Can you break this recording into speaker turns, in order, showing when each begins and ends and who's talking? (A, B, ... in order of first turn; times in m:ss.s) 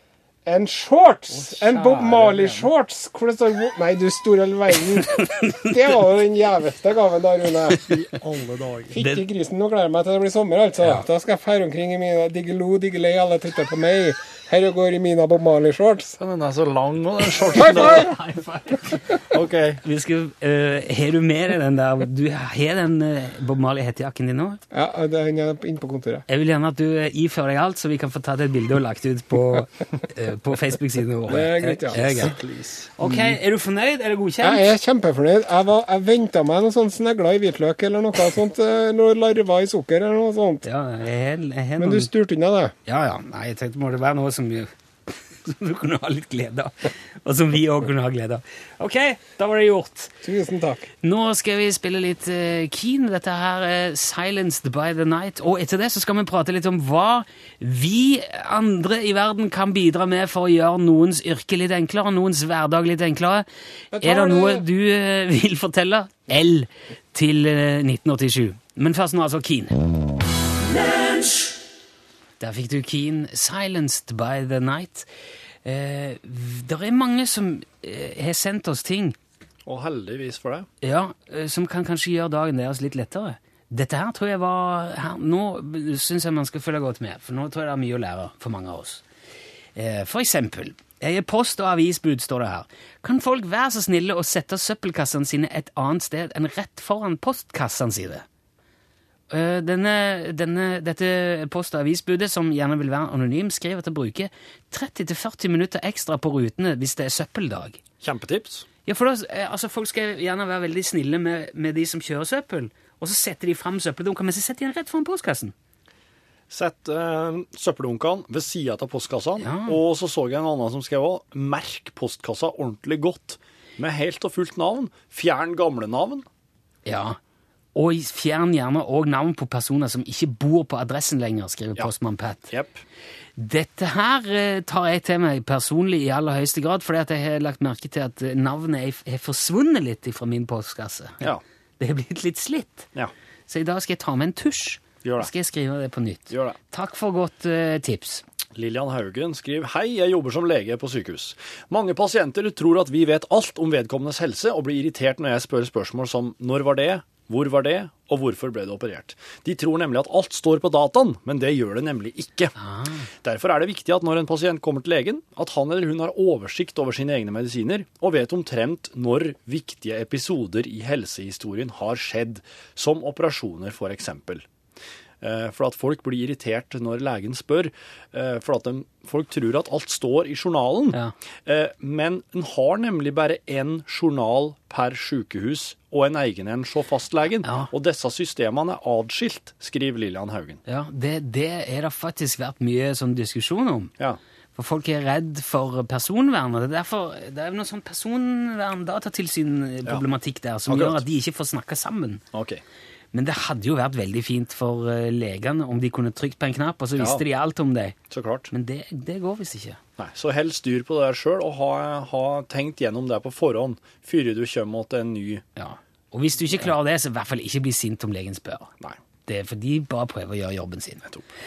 0:00.5-0:05.2 A
0:01.3-0:02.7 B
0:04.9-0:06.0 C
0:05.7-0:07.9 A
0:07.9-0:09.0 B
0:08.9-0:16.2 A
0:09.0-0:09.2 C
0:16.2-0:18.1 B
0:17.6-0:18.1 A
0:17.6-0:19.3 C
0:19.3-0:19.8 B
0:19.8-0:24.6 C
0:24.7-0:26.2 A
0:26.3-0:32.4 C
0:31.3-0:32.3 A
0:31.9-0:32.9 B
0:33.0-0:34.7 C
0:33.0-0:33.3 A
0:34.4-0:40.6 A
0:40.6-0:42.1 C
0:41.8-0:42.7 A
0:42.9-0:50.1 C
0:50.2-0:50.8 A
0:51.0-1:03.5 C
1:03.9-1:04.6 A
1:04.0-1:09.8 C
1:12.4-1:15.1 C
1:15.6-1:19.2 C
1:19.7-1:20.7 B
1:20.8-1:29.0 C
1:29.8-1:38.2 C
1:39.3-1:47.8 C
1:48.0-1:48.7 B
1:48.9-1:55.5 C
1:56.5-2:06.3 B
1:59.4-1:59.8 C
2:06.9-2:07.2 C
2:07.8-2:12.5 C
2:12.5-2:12.8 B
2:13.4-2:22.9 C
2:23.5-2:28.2 C
2:25.0-2:25.3 B
2:26.3-2:26.6 B
2:28.6-2:42.5 B
2:42.6-2:43.1 C
2:43.2-2:54.5 B
2:55.2-3:10.6 B
3:07.4-3:07.7 C
3:10.7-3:13.9 C
3:14.6-3:22.2 C
3:20.7-3:21.0 B
3:22.3-3:22.6 B
3:23.1-3:28.0 C
3:27.0-3:27.2 B
3:28.1-3:28.5 B
3:28.5-3:29.8 C
3:30.0-3:35.4 B
3:35.6-3:38.7 C
3:39.3-3:41.1 C